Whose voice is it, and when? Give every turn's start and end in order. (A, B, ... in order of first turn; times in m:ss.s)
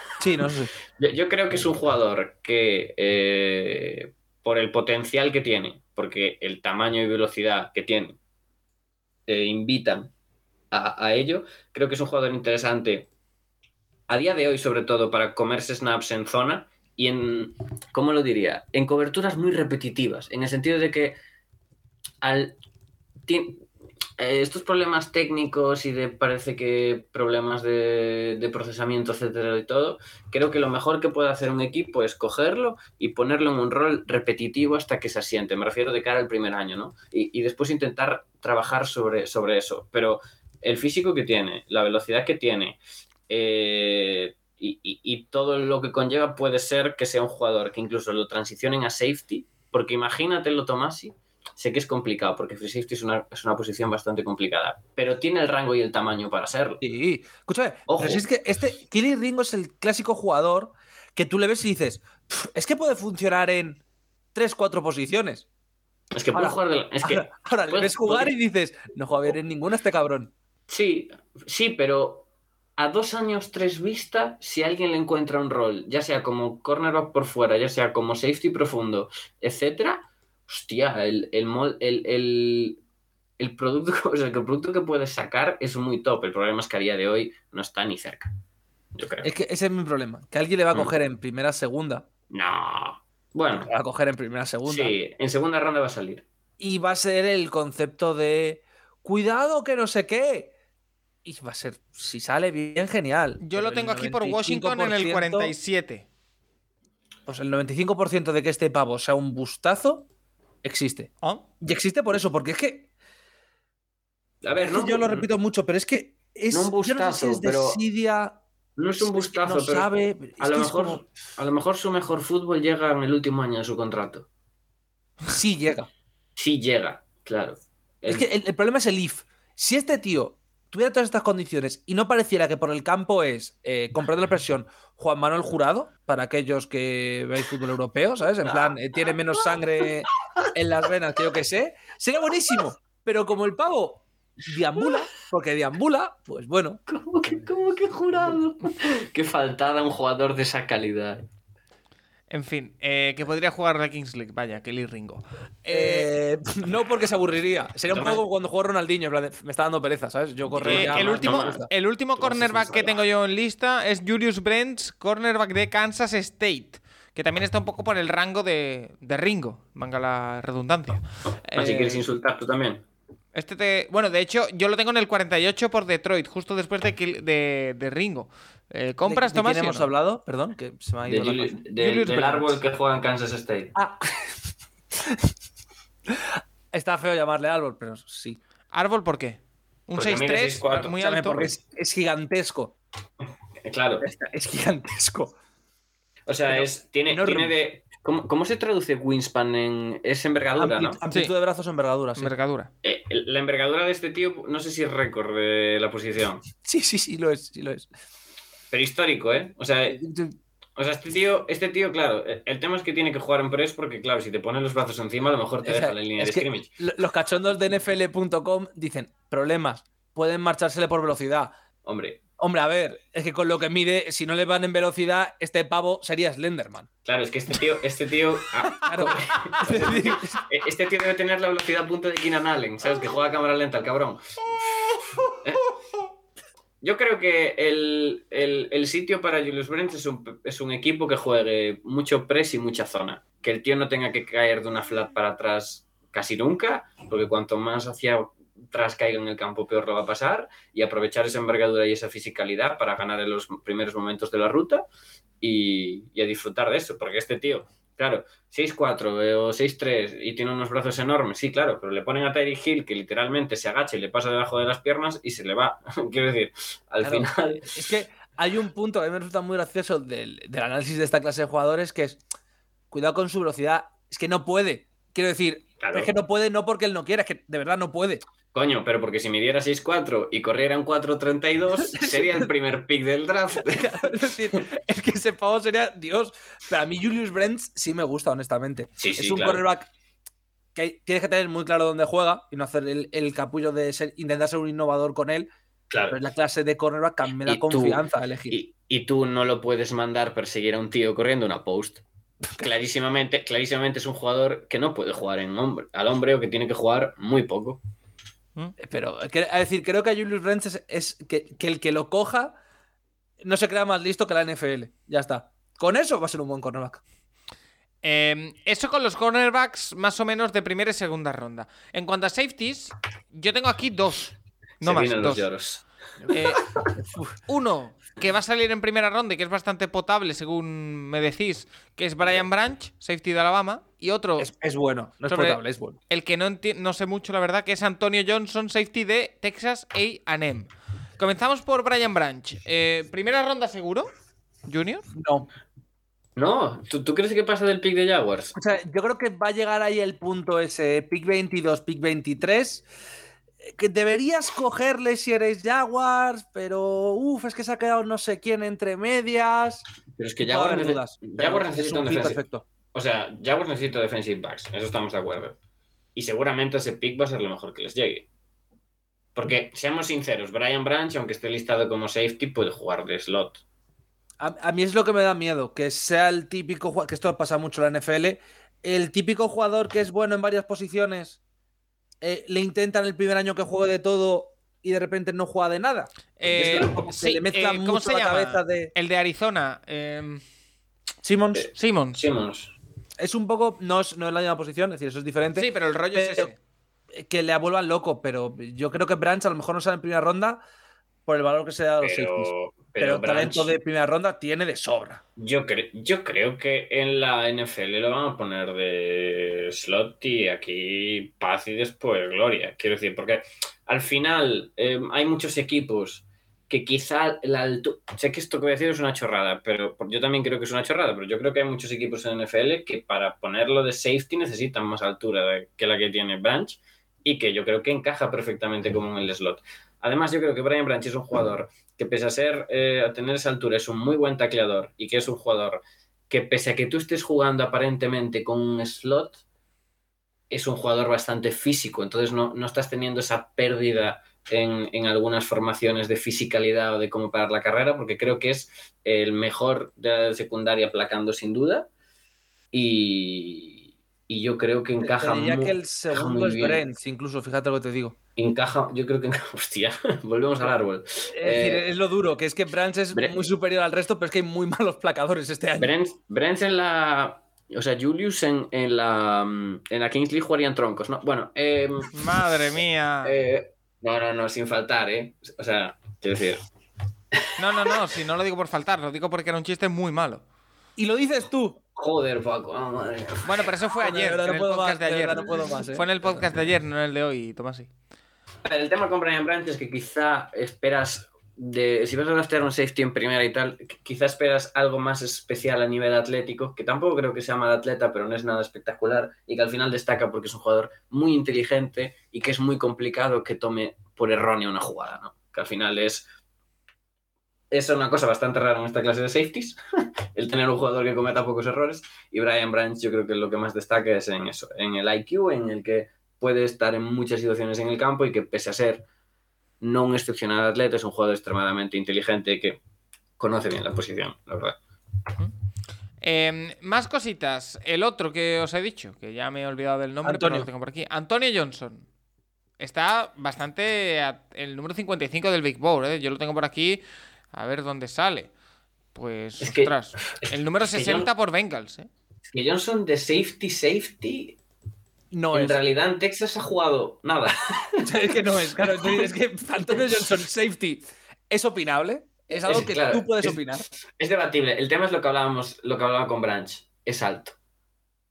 0:00.2-0:00.7 A
0:00.4-0:08.2 B
0:09.3-0:10.1 B
0:10.7-0:13.1 B
0:14.1-0:21.2 B
0:22.2-0:22.6 B
0:23.2-0:23.6 B
0:24.2-0:42.8 B
0:43.3-0:56.8 B
0:56.8-1:03.8 A
0:57.9-0:58.2 B
1:04.3-1:05.4 A
1:06.1-1:08.3 B
1:06.3-1:10.3 A
1:10.7-1:12.2 B
1:12.8-1:22.8 B
1:23.4-1:28.3 B
1:28.9-1:29.3 B
1:29.2-1:32.1 A
1:32.3-1:33.7 B
1:33.6-1:34.9 A
1:34.6-1:36.2 B
1:36.6-1:40.5 A
1:41.2-1:45.5 A
1:43.4-1:46.0 C
1:47.3-1:50.1 A
1:50.6-1:52.9 A
1:54.4-1:55.3 B
1:54.6-1:58.4 A
1:56.5-1:57.8 B
1:58.8-2:04.3 B
1:59.0-2:01.0 A
2:05.3-2:05.9 A
2:06.4-2:08.2 B
2:08.1-2:26.8 A
2:18.4-2:18.7 B
2:26.9-2:31.2 B
2:32.3-2:36.1 C
2:35.7-2:41.7 A
2:37.9-2:38.2 B
2:40.5-2:43.0 B
2:40.6-2:52.0 C
2:51.6-2:52.8 B
2:53.4-2:59.9 C
2:59.0-3:02.5 A
3:01.0-3:03.7 B
3:01.8-3:02.4 C
3:06.1-3:08.4 A
3:08.7-3:11.5 C
3:10.0-3:10.9 B
3:10.9-3:12.7 A
3:13.6-3:14.1 B
3:14.0-3:15.4 A
3:16.3-3:21.0 B
3:16.5-3:17.6 A
3:20.6-3:22.3 A
3:22.2-3:22.7 C
3:22.8-3:26.4 B
3:26.6-3:27.9 A
3:28.7-3:30.0 B
3:29.9-3:30.4 A
3:30.8-3:36.7 B
3:35.6-3:41.5 A
3:41.8-3:42.2 B
3:42.4-3:46.9 A
3:47.0-3:55.7 B
3:48.8-3:50.4 A
3:56.8-4:14.8 B
4:15.4-4:27.8 B
4:27.0-4:32.2 A
4:32.9-4:38.2 A
4:35.8-4:36.1 B
4:38.5-4:44.6 B
4:41.8-4:42.5 A
4:43.6-4:49.9 A
4:49.0-4:49.6 B
4:50.7-4:55.5 A
4:55.9-4:56.2 B
4:56.1-4:58.6 A
4:57.4-5:02.0 B
5:02.6-5:07.8 B
5:08.8-5:12.6 A
5:13.4-5:17.0 A
5:18.0-5:25.5 C
5:24.8-5:25.8 B
5:26.3-5:26.6 C
5:26.9-5:27.4 A
5:27.5-5:34.5 C
5:34.4-5:36.0 A
5:35.3-5:44.1 C
5:44.7-5:45.0 C
5:45.1-5:45.5 A
5:46.4-5:48.5 B
5:48.6-5:52.9 A
5:53.6-5:59.8 A
6:00.2-6:02.4 B
6:00.4-6:02.6 A
6:02.9-6:05.6 B
6:06.1-6:08.2 B
6:09.4-6:13.6 B
6:14.4-6:21.4 A
6:22.2-6:28.9 A
6:26.4-6:30.4 C
6:26.5-6:27.1 B
6:31.2-6:31.7 A
6:31.5-6:32.7 B
6:31.7-6:32.2 C
6:33.2-6:36.5 A
6:35.6-6:36.5 C
6:37.1-6:40.6 A
6:41.2-6:45.2 A
6:42.0-6:43.7 B
6:45.4-7:19.4 B
7:20.5-7:31.9 B
7:32.7-7:36.8 B
7:35.0-7:38.1 A
7:38.4-7:41.8 B
7:41.3-7:45.9 A
7:45.8-7:52.1 B
7:52.1-7:53.4 C
7:53.2-7:56.6 B
7:57.6-8:00.4 C
8:01.0-8:01.8 A
8:02.0-8:03.7 B
8:03.4-8:07.9 C
8:04.0-8:06.1 A
8:08.6-8:26.2 B
8:27.7-8:29.8 B
8:30.4-8:39.0 B
8:39.8-8:42.8 B
8:43.4-8:44.8 B
8:46.2-8:52.0 C
8:50.2-8:50.7 A
8:52.8-8:57.0 C
8:57.5-8:58.5 C
8:59.1-9:02.1 C
8:59.6-9:01.3 B
9:02.5-9:04.6 B
9:05.3-9:05.8 A
9:05.5-9:08.1 B
9:08.0-9:13.9 A
9:08.8-9:09.3 B
9:12.6-9:17.6 B